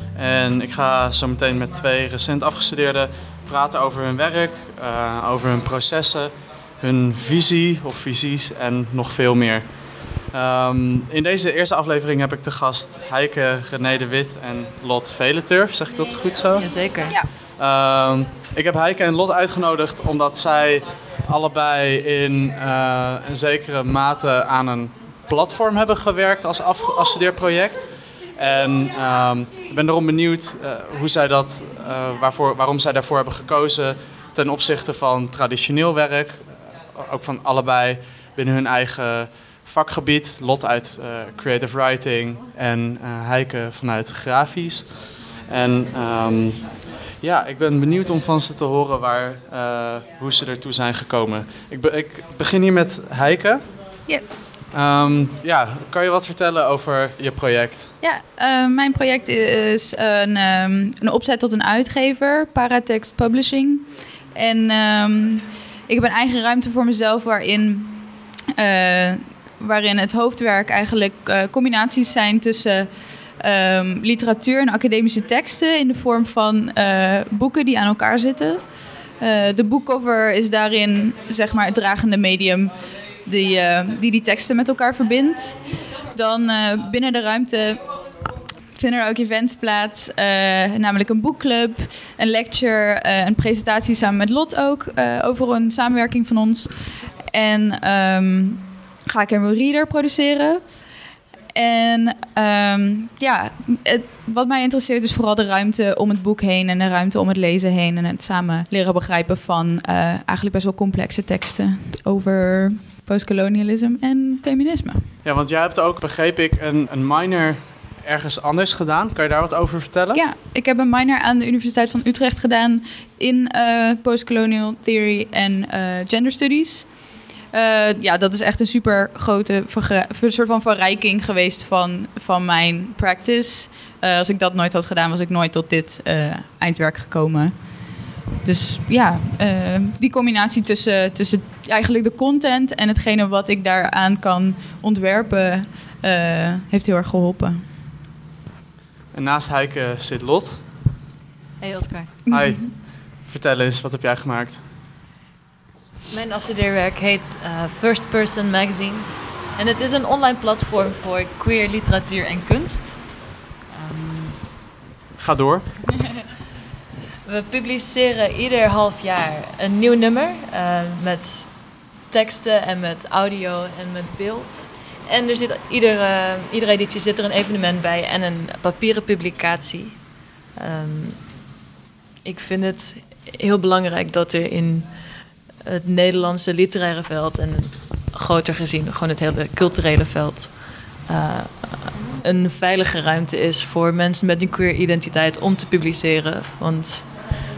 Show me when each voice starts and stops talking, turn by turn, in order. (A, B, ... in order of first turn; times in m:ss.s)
0:00.2-0:09.7 A
0:10.3-0:16.7 A
0:16.6-0:17.2 B
0:17.6-0:27.9 A
0:28.4-0:44.9 A
0:45.5-0:53.6 A
0:54.1-0:54.5 C
0:54.7-0:57.9 A
0:58.0-1:22.7 C
1:23.2-1:27.9 C
1:28.8-1:40.6 C
1:41.5-1:55.1 C
1:55.2-2:00.2 A
2:00.1-2:06.9 C
2:07.5-2:27.7 C
2:29.1-2:30.6 A
2:31.6-2:32.2 B
2:32.3-2:32.7 C
2:32.3-2:34.6 A
2:36.1-2:43.0 B
2:43.8-2:44.4 B
2:45.2-2:45.8 A
2:47.3-3:00.0 B
3:00.6-3:01.3 B
3:02.2-3:04.9 B
3:05.6-3:17.1 B